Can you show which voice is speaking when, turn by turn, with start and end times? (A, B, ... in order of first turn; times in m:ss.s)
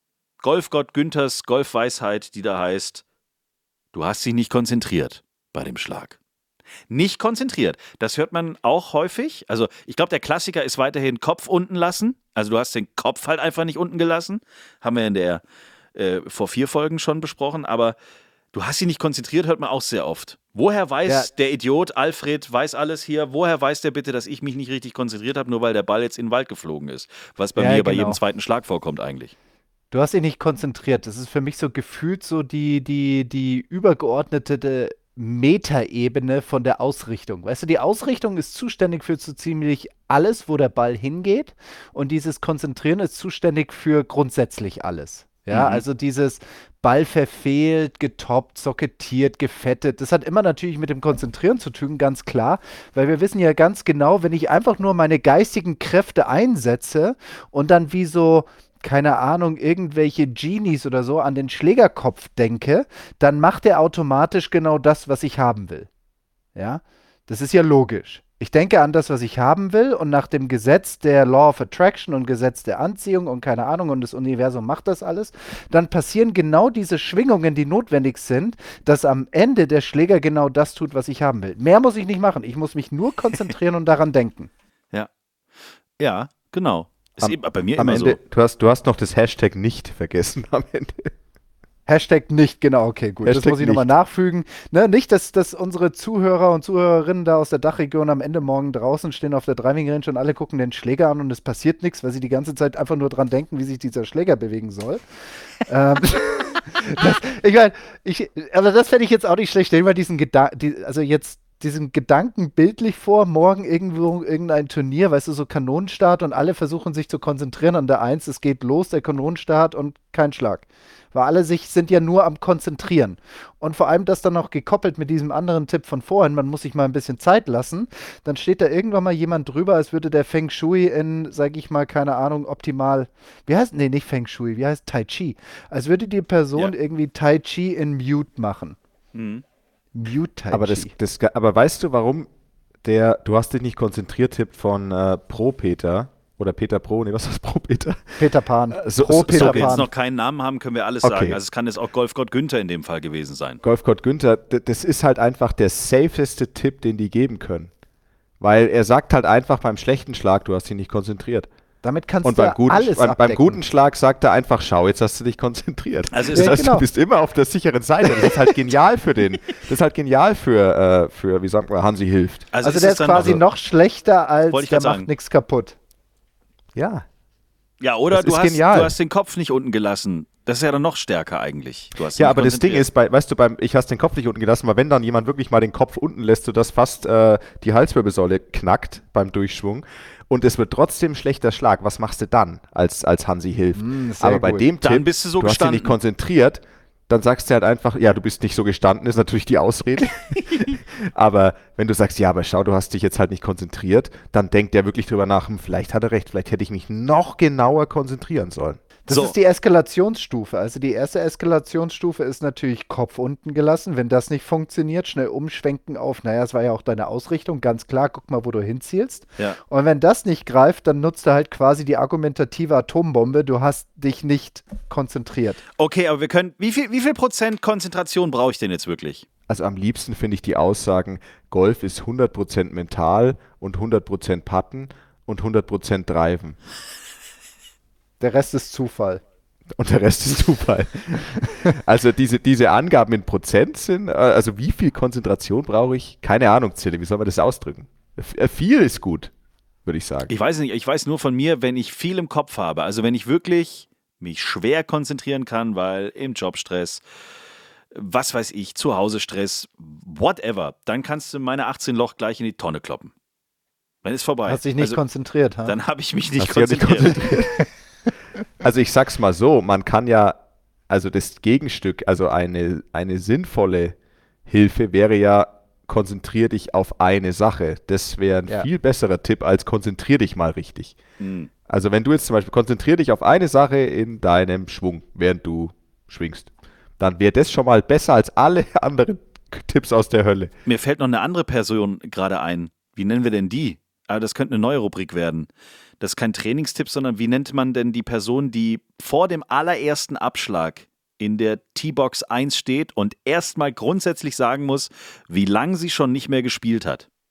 0:00.4-0:03.0 A
0:03.9-0:06.2 A
0:06.9-0:15.4 A
0:15.9-0:18.0 A
0:18.5-0:29.3 A
0:27.6-0:28.2 B
0:29.9-1:05.9 B
0:45.5-0:45.8 A
1:06.5-1:24.5 B
1:26.0-1:28.2 A
1:27.2-1:31.1 C
1:31.9-1:45.0 B
1:33.2-1:33.9 C
1:45.6-2:18.8 B
2:19.1-2:19.4 A
2:19.9-2:20.9 B
2:20.5-2:22.3 C
2:22.8-2:29.8 C
2:28.2-2:29.9 B
2:29.3-2:33.6 A
2:31.0-2:31.4 C
2:33.6-2:37.7 C
2:38.4-2:41.5 C
2:41.8-2:43.6 B
2:42.2-2:52.5 C
2:46.1-2:46.6 A
2:46.3-2:46.8 B
2:52.5-2:53.4 A
2:52.6-2:55.8 B
2:53.1-2:53.4 C
2:54.5-2:55.1 A
2:56.7-2:57.0 C
2:57.8-3:02.8 A
2:58.1-2:59.0 C
3:02.2-3:28.8 C
3:13.7-3:14.7 B
3:14.8-3:15.9 A
3:29.1-3:45.6 B
3:29.1-3:29.3 A
3:45.8-3:49.2 A
3:49.5-3:56.6 C
3:58.2-3:59.2 B
3:59.8-4:09.3 C
4:09.8-4:10.3 C
4:10.3-4:17.0 A
4:17.9-4:23.1 A
4:24.0-4:25.0 A
4:24.5-4:25.8 B
4:25.6-4:27.3 A
4:26.4-4:27.6 C
4:28.6-4:41.0 C
4:41.2-4:41.5 A
4:41.7-4:50.5 C
4:50.6-4:55.5 A
4:56.0-5:07.0 A